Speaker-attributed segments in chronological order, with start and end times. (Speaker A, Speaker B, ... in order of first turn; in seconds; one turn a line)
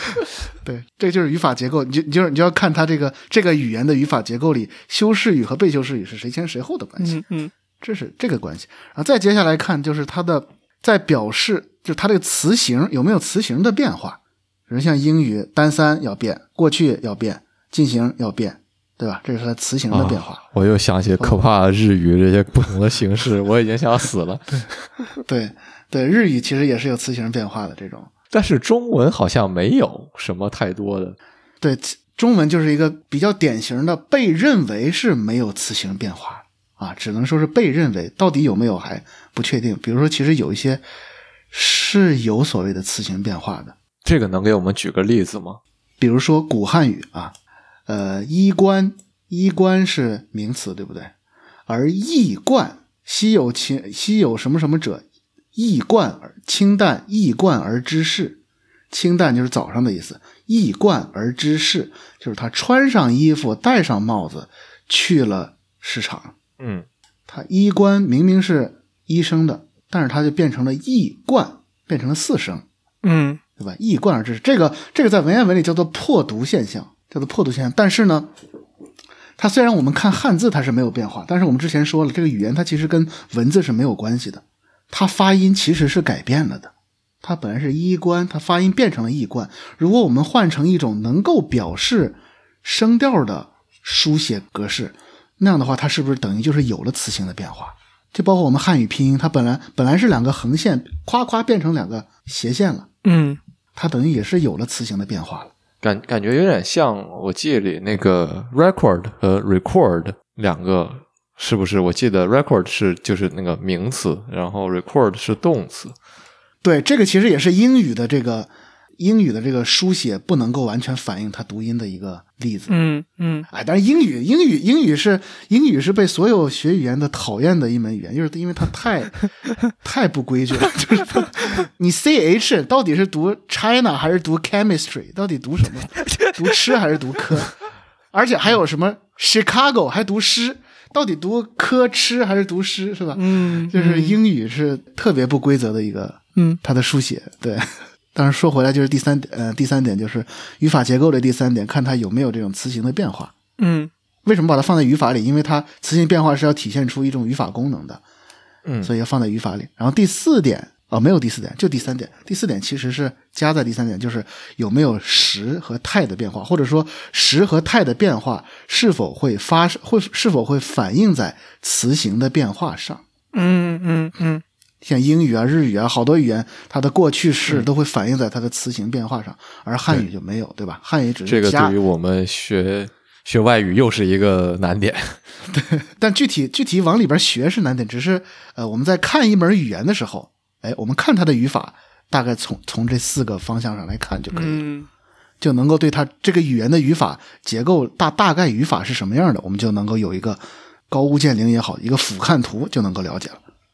Speaker A: 0.6-7.2
Speaker B: 7.0-7.5
Speaker A: 7.8-20.4
Speaker C: 19.9-24.8
Speaker A: 21.2-21.4
Speaker A: 25.2-28.1
Speaker C: 28.3-31.2
Speaker A: 31.6-40.8
Speaker A: 41.5-43.7
Speaker C: 44.0-45.6
Speaker A: 46.0-47.3
Speaker A: 47.9-51.1
Speaker A: 51.7-58.4
Speaker A: 58.9-66.3
Speaker C: 66.6-66.8
Speaker A: 67.3-72.6
Speaker B: 73.0-73.4
Speaker A: 73.6-78.3
Speaker A: 79.4-102.9
Speaker B: 103.0-103.4
Speaker A: 103.7-105.5
Speaker C: 105.8-116.0
Speaker A: 116.6-122.8
Speaker B: 122.7-123.5
Speaker A: 123.5-137.6
Speaker A: 138.1-153.3
Speaker B: 143.1-144.2
Speaker B: 153.6-153.9
Speaker A: 154.2-158.0
Speaker A: 158.8-173.0
Speaker B: 173.3-174.4
Speaker A: 174.8-181.8
Speaker C: 181.2-185.2
Speaker A: 185.5-194.6
Speaker B: 194.3-194.9
Speaker A: 195.4-203.4